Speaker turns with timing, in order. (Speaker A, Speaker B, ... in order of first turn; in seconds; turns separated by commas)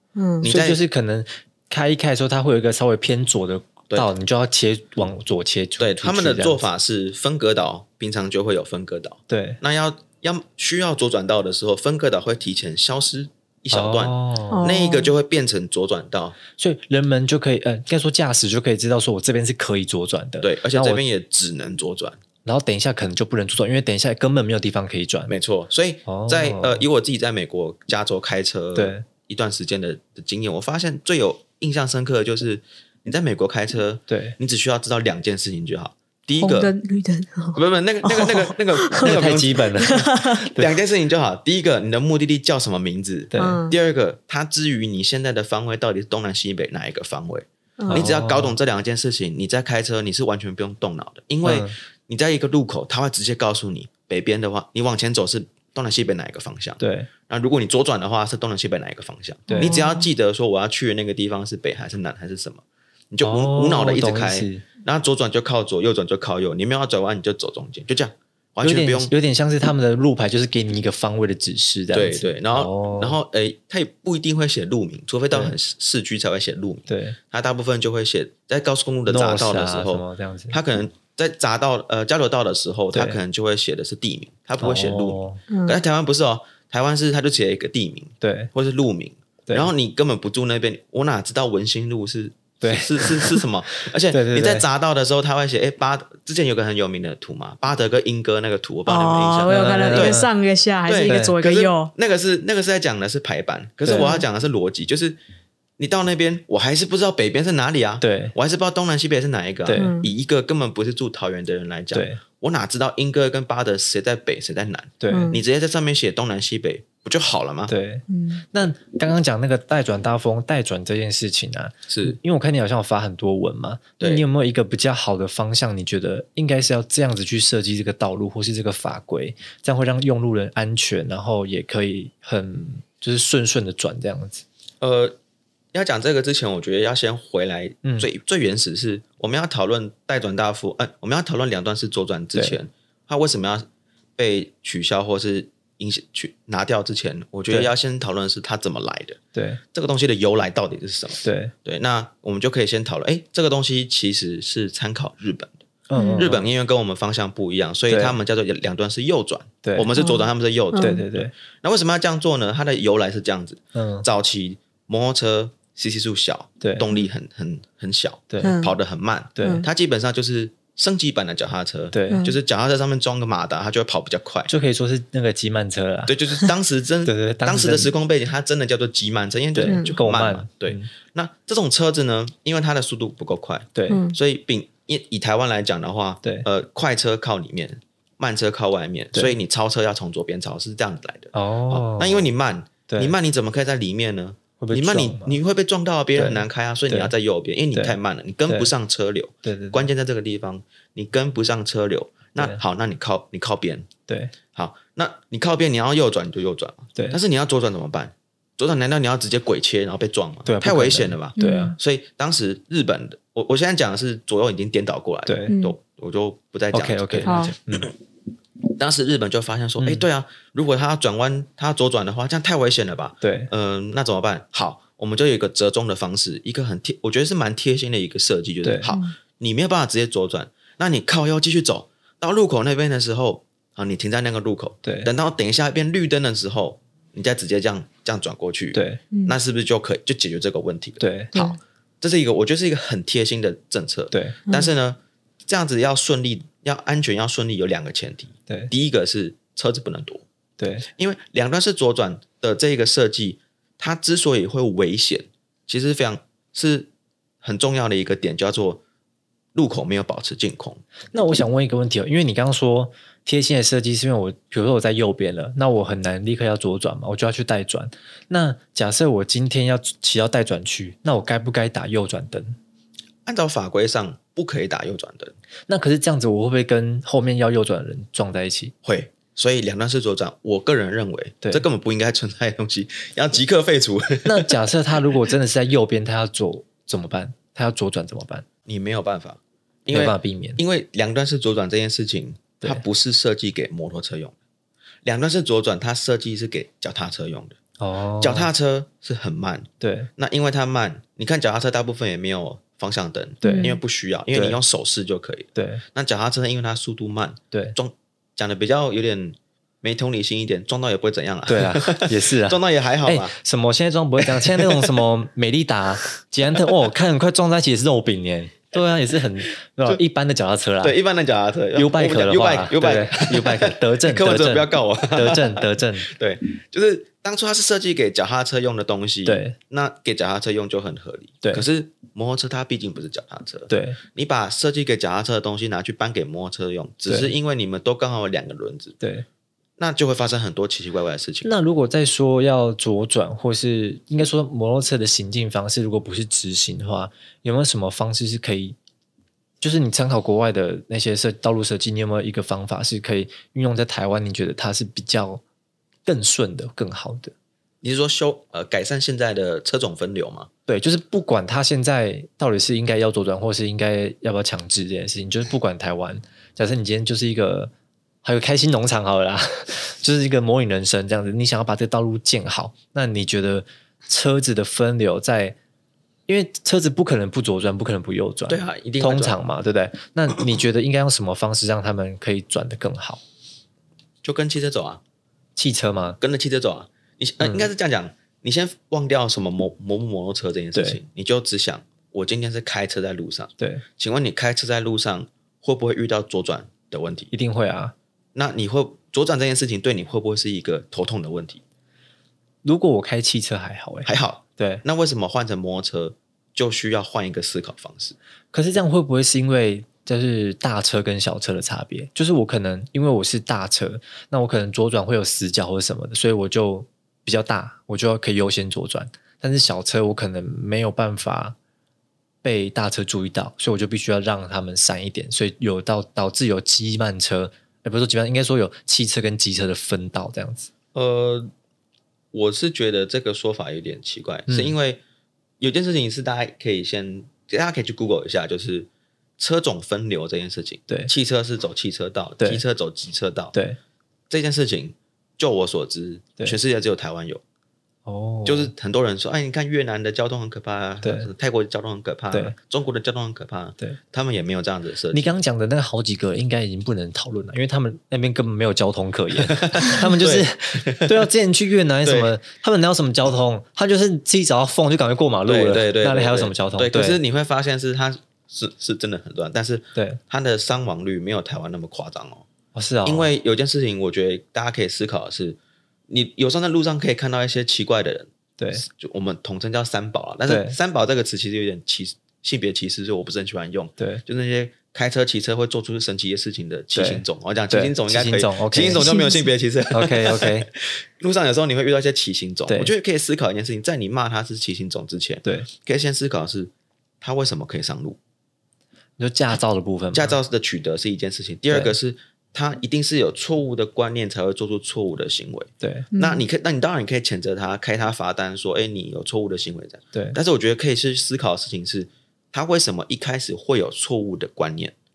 Speaker A: 0.1-0.5, Speaker B: 0.4-0.8, Speaker C: 0.4-6.6, Speaker B: 5.8-16.4, Speaker C: 9.3-9.6, Speaker C: 13.7-14.6, Speaker A: 14.5-15.1, Speaker C: 16.6-21.0, Speaker B: 20.4-22.2, Speaker C: 22.4-25.3, Speaker B: 25.3-36.7, Speaker C: 26.1-26.8, Speaker C: 28.7-29.0, Speaker C: 34.1-34.3, Speaker A: 36.4-40.5, Speaker B: 37.5-40.0, Speaker C: 39.0-40.7, Speaker B: 40.5-69.1, Speaker C: 43.3-43.6, Speaker A: 43.4-43.8, Speaker A: 47.8-48.1, Speaker C: 47.9-48.5, Speaker C: 51.4-51.7, Speaker C: 56.8-57.1, Speaker C: 59.5-59.8, Speaker A: 59.5-60.1, Speaker C: 63.2-64.6, Speaker C: 68.6-73.2, Speaker B: 71.9-100.2, Speaker C: 76.9-77.2, Speaker C: 79.1-80.6, Speaker C: 82.9-83.2, Speaker C: 84.6-85.4, Speaker A: 85.5-85.8, Speaker C: 88.2-88.5, Speaker C: 92.6-94.7, Speaker A: 98.9-101.9, Speaker C: 99.5-100.3, Speaker B: 100.8-105.2, Speaker C: 101.1-101.4, Speaker C: 103.8-104.1, Speaker A: 103.9-104.2, Speaker B: 105.8-117.7, Speaker C: 108.0-108.3, Speaker C: 109.7-109.9, Speaker A: 109.8-110.1, Speaker C: 111.9-112.2, Speaker C: 115.0-115.3, Speaker A: 115.1-115.4, Speaker C: 117.7-134.4, Speaker A: 118.1-118.4, Speaker B: 121.9-122.2, Speaker B: 134.8-135.2, Speaker B: 135.7-143.7, Speaker B: 144.2-149.2, Speaker C: 149.3-149.6, Speaker B: 149.7-155.5, Speaker C: 151.2-151.5, Speaker C: 155.9-156.4, Speaker A: 155.9-156.3, Speaker B: 156.2-174.5, Speaker C: 157.9-158.2, Speaker A: 159.9-161.0, Speaker C: 160.7-161.3, Speaker C: 163.7-164.1, Speaker C: 166.6-166.8, Speaker C: 168.3-168.6, Speaker A: 168.4-168.8, Speaker C: 169.4-169.7, Speaker A: 169.4-169.7, Speaker C: 171.9-172.2, Speaker A: 172.1-172.4, Speaker C: 174.5-176.4, Speaker B: 176.1-203.9, Speaker C: 177.1-177.9, Speaker C: 179.5-180.9, Speaker A: 179.7-180.0, Speaker C: 183.7-184.0, Speaker A: 183.9-184.2, Speaker C: 191.3-192.3, Speaker C: 192.9-193.1, Speaker C: 194.6-195.4, Speaker C: 196.2-197.1, Speaker C: 199.4-199.9, Speaker C: 204.1-204.3, Speaker B: 204.5-217.9, Speaker C: 210.4-211.8, Speaker A: 211.4-211.8, Speaker C: 215.2-215.6, Speaker A: 215.5-215.8, Speaker C: 216.7-217.9, Speaker A: 217.2-217.5, Speaker B: 218.7-250.2, Speaker C: 219.8-220.0, Speaker C: 223.2-223.5, Speaker C: 228.6-228.9, Speaker A: 228.8-229.1, Speaker C: 234.8-235.1, Speaker C: 238.7-239.0, Speaker C: 241.0-241.3, Speaker C: 244.1-244.4, Speaker A: 244.5-244.7, Speaker C: 250.6-250.8, Speaker B: 250.8-256.9, Speaker B: 257.4-258.8, Speaker B: 259.5-260.8, Speaker C: 261.1-272.6, Speaker B: 273.2-275.3, Speaker C: 275.7-278.7, Speaker B: 278.8-284.5, Speaker C: 284.2-288.4, Speaker B: 288.6-294.3, Speaker C: 289.9-290.6, Speaker B: 295.0-297.6, Speaker C: 297.8-298.5, Speaker B: 298.2-313.3, Speaker C: 299.8-300.1, Speaker C: 303.4-303.7, Speaker A: 303.4-303.8, Speaker C: 304.3-304.6, Speaker C: 305.5-305.8, Speaker C: 311.5-321.0, Speaker B: 314.2-315.0, Speaker B: 319.5-320.0, Speaker B: 320.8-339.0, Speaker C: 321.7-326.1, Speaker C: 329.2-329.6, Speaker C: 333.7-334.0, Speaker C: 337.1-337.3, Speaker C: 339.0-339.2, Speaker B: 339.8-341.5, Speaker C: 341.4-348.8, Speaker C: 349.6-355.4, Speaker C: 356.1-357.3, Speaker B: 357.8-360.5, Speaker C: 360.7-367.7, Speaker C: 368.2-375.6, Speaker C: 376.3-383.2, Speaker B: 378.5-379.4, Speaker B: 384.2-385.0, Speaker C: 385.6-386.2, Speaker B: 386.2-397.3, Speaker C: 393.6-393.8, Speaker C: 397.3-397.9, Speaker B: 398.3-401.6, Speaker C: 402.6-404.8, Speaker B: 404.1-408.1, Speaker C: 408.5-421.6, Speaker C: 422.4-430.7, Speaker B: 430.9-431.5, Speaker B: 432.3-435.0, Speaker C: 434.5-434.7, Speaker B: 435.6-438.9, Speaker B: 439.4-443.5, Speaker B: 444.3-447.4, Speaker C: 448.1-448.7, Speaker B: 448.4-455.3, Speaker C: 451.0-451.3, Speaker C: 455.1-467.2, Speaker B: 459.4-461.3, Speaker B: 462.0-462.3, Speaker B: 465.4-472.4, Speaker C: 472.7-473.3, Speaker B: 473.0-475.6, Speaker B: 476.1-498.2, Speaker C: 480.4-480.8, Speaker C: 486.9-489.2, Speaker A: 489.0-489.5, Speaker C: 489.9-490.7, Speaker C: 499.2-500.4, Speaker B: 500.1-514.9, Speaker C: 501.7-501.9, Speaker C: 505.8-506.1, Speaker A: 506.1-506.4